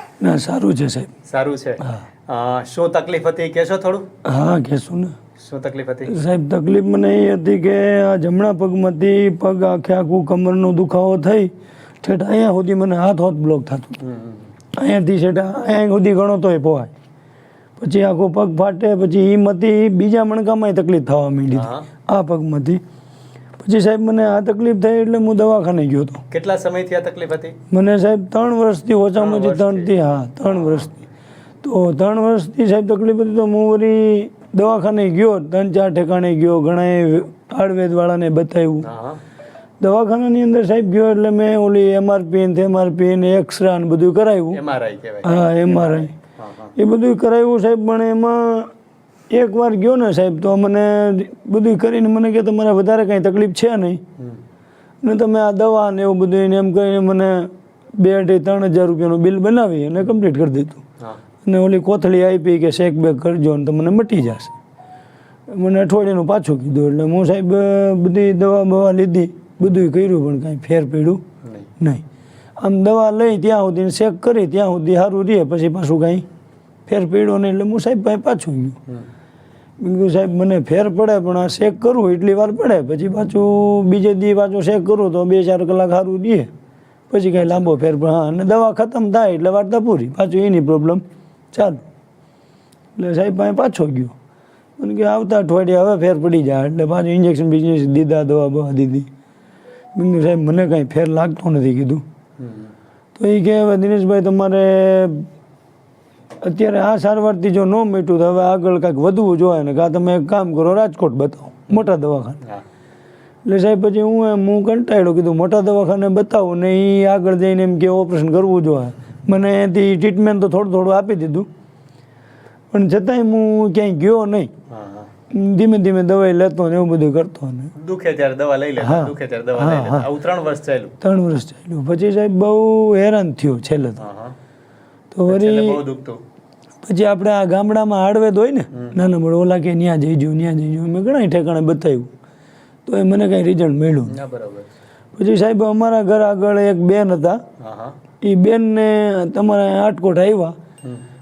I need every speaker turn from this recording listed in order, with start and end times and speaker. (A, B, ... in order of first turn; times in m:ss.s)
0:00.2-0:01.1 A
0:01.3-0:04.1 B
0:01.8-0:02.0 A
0:04.2-0:05.2 A
0:05.4-0:06.1 B
0:06.1-0:14.0 A
0:14.0-0:14.5 B
0:14.7-0:16.9 A
0:17.8-0:22.8 A
0:21.5-0:21.9 B
0:23.6-0:26.2 A
0:26.3-0:27.6 B
0:27.7-0:31.1 A
0:29.2-0:29.9 B
0:31.6-0:38.9 A
0:38.8-0:39.2 B
0:39.8-0:44.6 A
0:44.5-0:46.7 B
0:45.2-0:46.1 A
0:46.8-0:48.7 A
0:49.3-0:54.0 A
0:55.0-1:00.8 A
1:01.4-1:04.5 A
1:05.5-1:11.2 A
1:11.4-1:11.7 B
1:11.8-1:12.0 A
1:12.6-1:16.2 A
1:16.8-1:18.8 A
1:19.8-1:26.5 A
1:27.1-1:31.0 A
1:27.4-1:27.7 B
1:31.5-1:31.8 A
1:33.0-1:34.1 A
1:34.8-1:39.1 A
1:39.9-1:42.0 A
1:42.4-1:42.7 B
1:43.2-1:45.3 A
1:46.4-1:52.4 A
1:53.4-2:01.5 A
2:02.7-2:04.5 A
2:04.7-2:05.1 B
2:05.3-2:07.7 A
2:07.8-2:10.9 B
2:08.8-2:10.1 A
2:11.0-2:14.0 A
2:14.0-2:14.3 B
2:15.1-2:15.8 A
2:15.3-2:16.2 B
2:16.8-2:22.1 A
2:22.8-2:24.2 A
2:24.1-2:24.7 B
2:25.1-2:27.4 A
2:27.6-2:28.0 B
2:28.2-2:30.5 A